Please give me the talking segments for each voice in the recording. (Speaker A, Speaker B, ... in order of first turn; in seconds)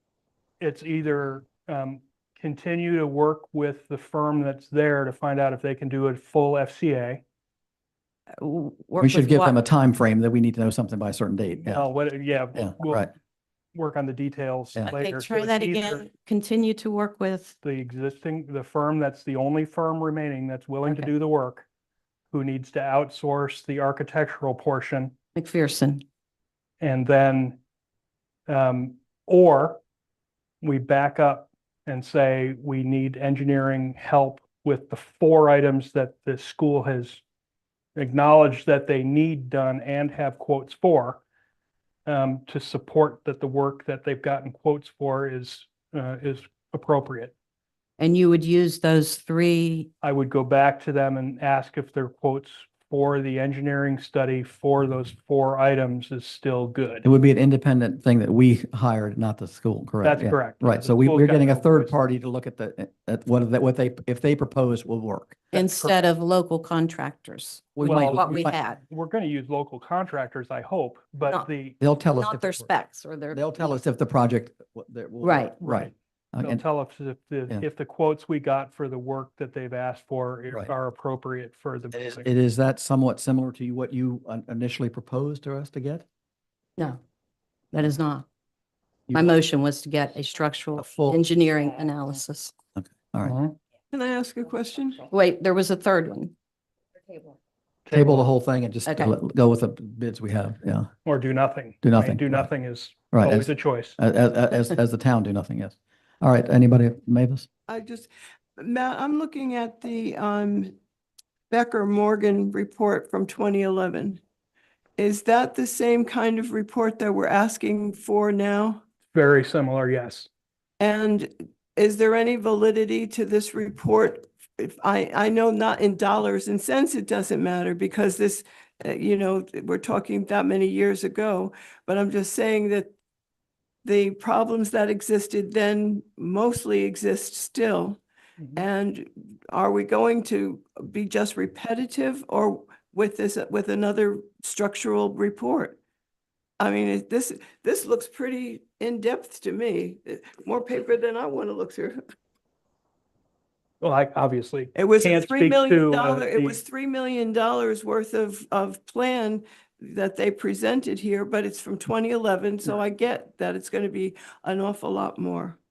Speaker A: 0.6-7.2, 11.6-13.1, 13.7-16.1, 17.6-21.6, 22.3-25.1, 26.8-27.6, 28.5-29.8, 30.6-37.2, 38.0-41.2, 42.0-47.3, 50.0-57.0, 60.0-61.9, 65.5-66.0, 67.8-71.8, 75.6-82.3, 93.2-93.6, 97.9-98.2, 101.0-103.9, 119.1-120.3, 153.8-156.6
Speaker B: 8.4-9.6, 14.9-17.6, 25.3-26.0, 48.0-49.9, 65.5-68.8, 72.0-73.7, 75.2-75.5, 87.7-88.2, 89.1-92.5, 95.0-96.3, 98.8-99.1
Speaker C: 9.0-11.9, 12.5-13.1, 57.0-65.4, 67.8-68.5, 71.8-72.7, 73.3-76.6, 81.9-86.0, 89.1-89.3, 90.8-91.2, 92.8-93.4, 97.9-100.9, 101.8-102.5, 103.1-107.5
Speaker D: 93.9-95.0, 107.7-110.8, 111.5-114.2, 115.0-118.8, 120.8-132.9, 133.8-138.0, 138.6-145.8, 146.6-152.0, 154.8-165.6